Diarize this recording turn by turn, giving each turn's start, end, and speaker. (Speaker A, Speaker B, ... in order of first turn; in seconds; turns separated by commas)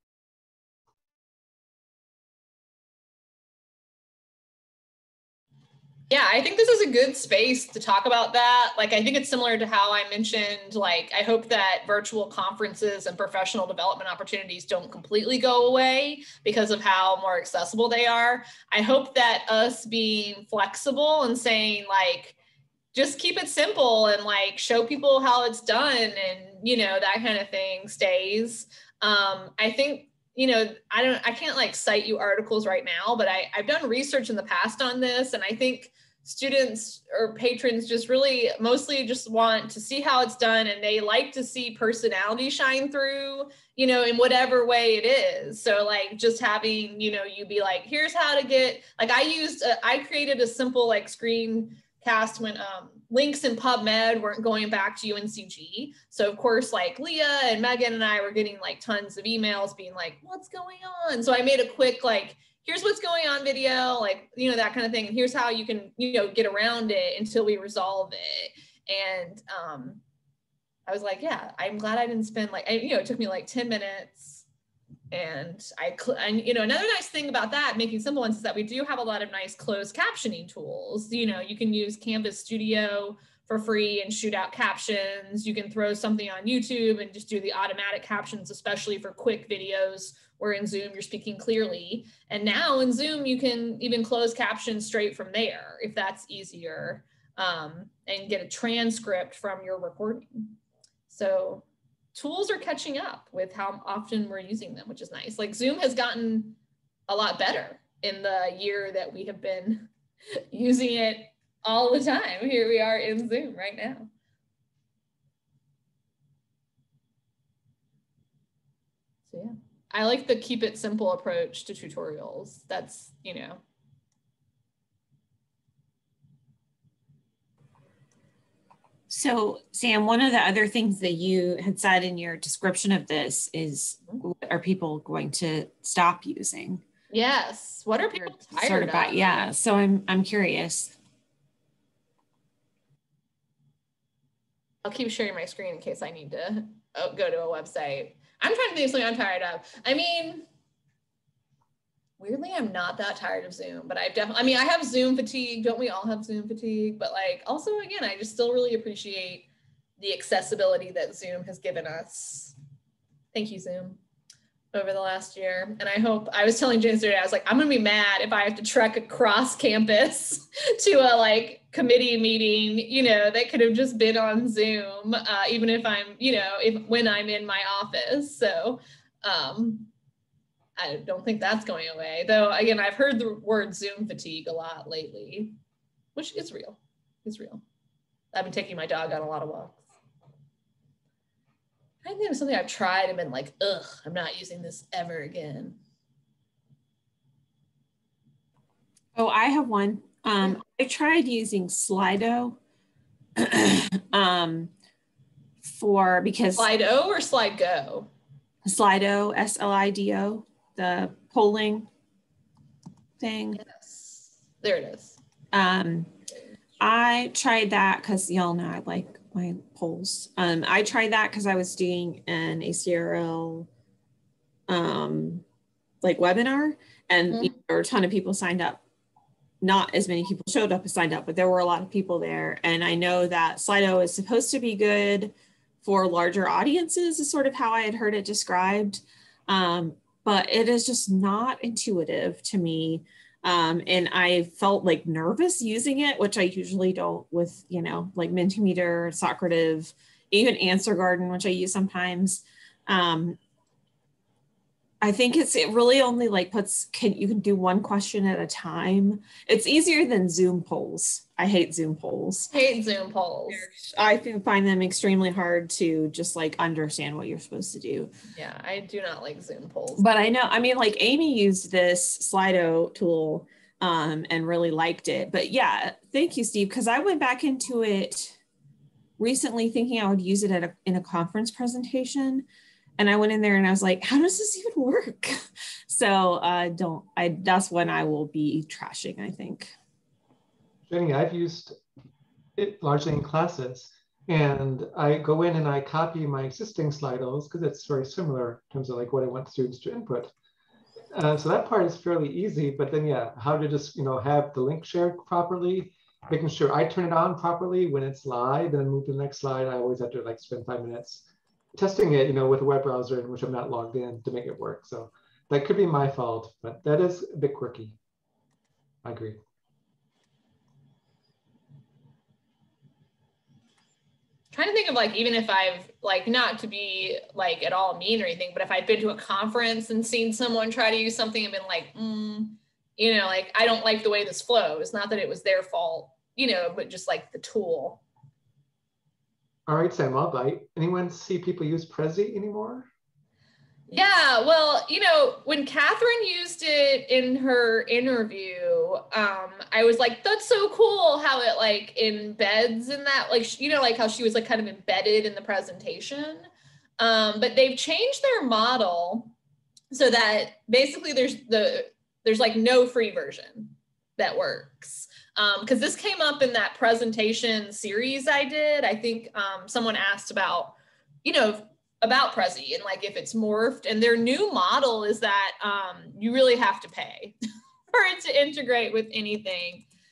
Speaker A: 6.1-22.4, Speaker A: 22.9-70.0, Speaker A: 70.9-74.4, Speaker A: 75.1-100.6, Speaker A: 101.1-109.9, Speaker A: 110.5-114.1, Speaker A: 119.3-123.6, Speaker B: 129.1-136.8, Speaker A: 137.1-139.5, Speaker B: 138.2-141.0, Speaker A: 144.8-150.4, Speaker A: 152.2-159.5, Speaker A: 160.0-162.6, Speaker A: 163.3-164.0, Speaker A: 164.7-179.9, Speaker A: 180.8-185.6, Speaker A: 186.1-187.6, Speaker A: 188.3-189.8, Speaker A: 192.0-195.8, Speaker B: 199.2-202.6, Speaker B: 203.4-204.7, Speaker B: 205.6-206.7, Speaker A: 206.6-208.1, Speaker B: 208.6-211.9, Speaker B: 213.2-213.6, Speaker A: 213.6-215.2, Speaker B: 215.5-216.1, Speaker B: 216.8-223.7, Speaker B: 224.7-225.4, Speaker B: 226.0-228.8, Speaker B: 229.6-253.4, Speaker B: 255.0-262.5, Speaker A: 262.5-263.7, Speaker B: 263.5-268.1, Speaker A: 268.3-270.1, Speaker B: 270.0-278.4, Speaker B: 279.2-282.5, Speaker B: 283.0-289.7, Speaker C: 290.9-291.8, Speaker C: 292.6-300.3, Speaker C: 301.1-318.0, Speaker C: 319.0-319.4, Speaker A: 324.5-338.0, Speaker C: 339.7-342.9, Speaker A: 343.9-356.5, Speaker A: 357.0-359.4, Speaker A: 359.9-377.4, Speaker A: 377.9-379.9